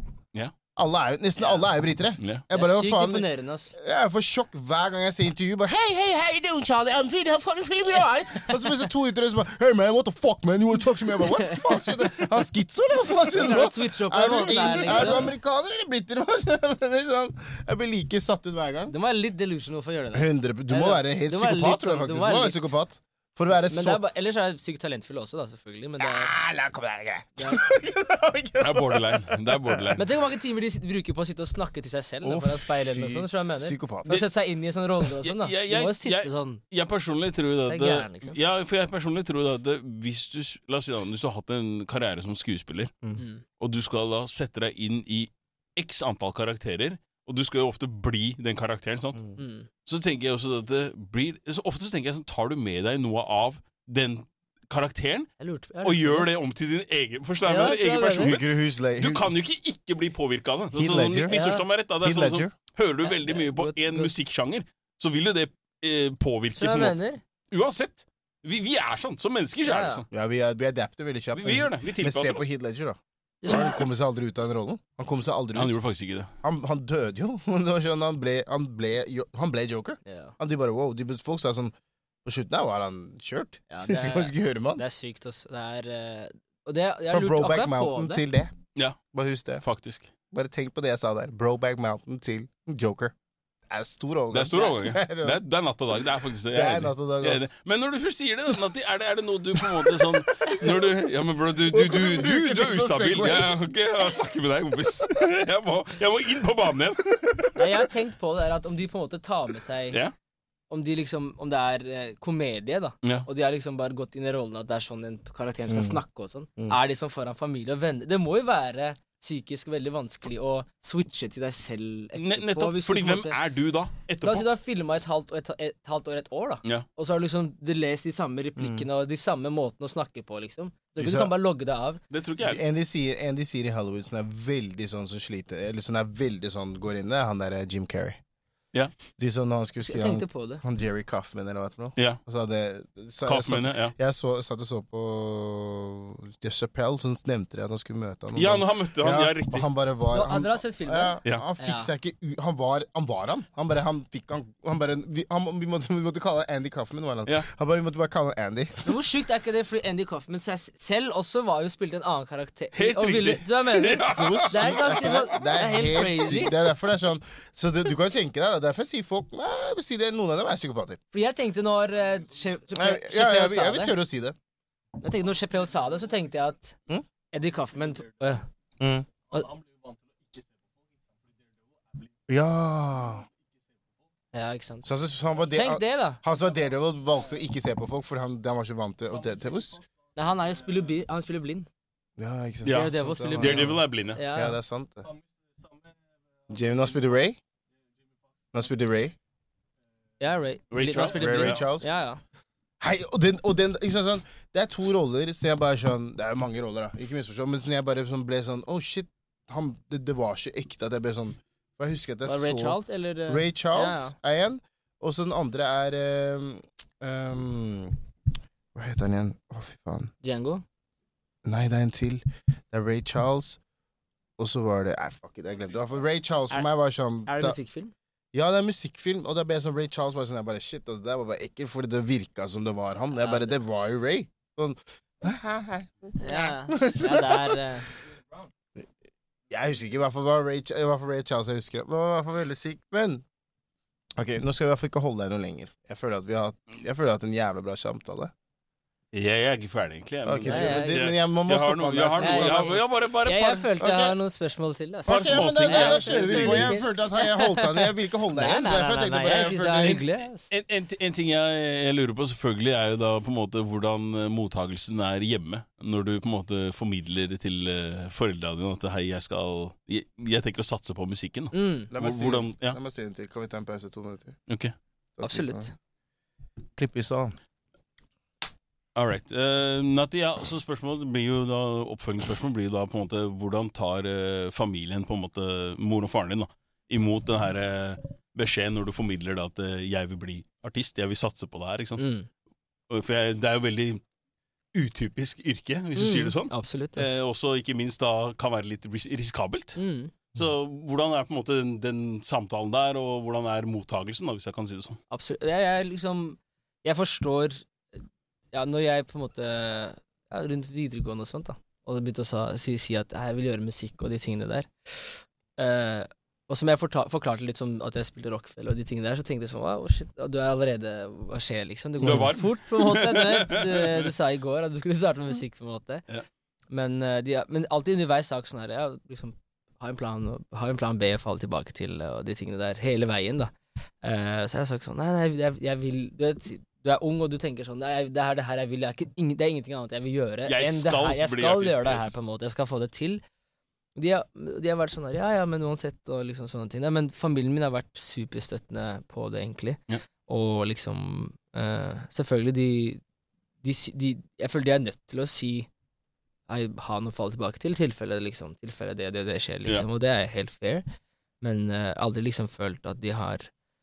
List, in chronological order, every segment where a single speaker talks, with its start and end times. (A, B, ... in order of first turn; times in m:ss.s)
0:00.8-0:18.9 A
0:01.4-0:01.7 B
0:02.5-0:03.7 B
0:11.3-0:11.9 B
0:13.3-0:15.3 B
0:18.9-0:22.7 B
0:20.1-0:24.0 A
0:23.5-0:26.3 B
0:26.0-0:30.0 A
0:27.4-0:27.6 B
0:28.6-0:30.0 C
0:30.0-0:36.6 B
0:32.2-0:34.2 A
0:35.2-0:43.0 C
0:37.7-0:38.4 B
0:43.2-0:43.4 B
0:43.6-0:49.3 C
0:49.4-0:49.7 B
0:49.9-1:07.0 C
0:55.4-0:56.3 B
0:57.4-0:58.4 B
0:58.2-0:59.3 A
1:00.8-1:01.4 A
1:01.3-1:01.6 B
1:02.0-1:02.5 A
1:03.0-1:04.1 B
1:06.6-1:07.2 B
1:07.5-1:10.1 C
1:09.6-1:10.0 B
1:10.1-1:15.8 A
1:11.4-1:12.5 C
1:13.4-1:13.8 B
1:15.6-1:16.3 C
1:16.4-1:21.7 A
1:20.1-1:20.4 B
1:22.2-1:24.8 A
1:23.7-1:28.2 B
1:27.1-1:28.6 A
1:29.1-1:29.6 A
1:29.6-1:30.1 C
1:30.3-1:33.1 A
1:33.7-1:35.4 A
1:34.3-1:47.8 C
1:36.5-1:37.5 A
1:40.5-1:40.9 A
1:41.7-1:43.5 A
1:47.6-1:50.0 B
1:50.7-2:03.4 B
1:55.7-1:56.0 A
2:02.2-2:04.4 C
2:04.2-2:12.0 B
2:08.6-2:08.9 A
2:11.0-2:11.3 A
2:12.1-2:12.6 C
2:12.4-2:18.2 A
2:19.2-2:38.9 A
2:19.8-2:20.6 B
2:23.2-2:23.9 C
2:28.4-2:29.7 C
2:30.1-2:31.9 B
2:38.9-2:46.5 B
2:42.8-2:45.2 C
2:44.1-2:51.0 A
2:45.9-2:46.3 C
2:51.1-2:54.0 B
2:52.7-2:54.4 A
2:55.0-2:56.8 B
2:57.3-2:58.5 B
2:58.8-2:59.1 A
3:02.3-3:03.3 A
3:04.3-3:04.9 B
3:04.8-3:09.8 A
3:05.5-3:06.2 B
3:10.2-3:11.7 B
3:12.2-3:15.1 A
3:12.7-3:14.2 C
3:12.7-3:14.6 B
3:16.5-3:17.4 A
3:18.5-3:19.2 A
3:20.2-3:22.2 B
3:20.7-3:21.6 C
3:21.1-3:21.9 A
3:22.8-3:38.0 A
3:32.2-3:34.2 B
3:38.8-3:40.1 A
3:40.2-3:40.6 B
3:41.4-3:43.6 A
3:44.4-3:47.6 A
3:47.3-3:47.9 B
3:48.3-3:57.6 A
3:53.2-3:53.6 B
3:56.2-3:57.9 B
3:59.5-4:03.2 A
4:04.2-4:08.3 A
4:09.1-4:13.7 C
4:10.2-4:12.8 A
4:10.5-4:11.0 B
4:12.2-4:20.5 B
4:13.8-4:14.2 A
4:15.1-4:20.0 A
4:15.1-4:16.8 C
4:20.5-4:32.8 C
4:31.5-4:31.9 B
4:31.9-4:34.4 A
4:34.5-4:34.7 C
4:35.2-4:35.7 A
4:35.2-4:35.7 B
4:36.8-4:37.4 A
4:39.0-4:52.0 C
4:52.0-4:52.3 B
4:52.9-4:54.0 C
4:54.7-4:59.8 C
4:56.0-4:57.2 B
4:59.8-5:00.1 B
5:00.3-5:05.0 C
5:05.1-5:26.0 B
5:22.0-5:24.1 C
5:26.7-5:43.2 B
5:40.4-5:42.1 C
5:44.0-5:53.0 B
5:53.6-5:55.7 B
5:56.5-6:00.9 B
6:01.4-6:03.5 B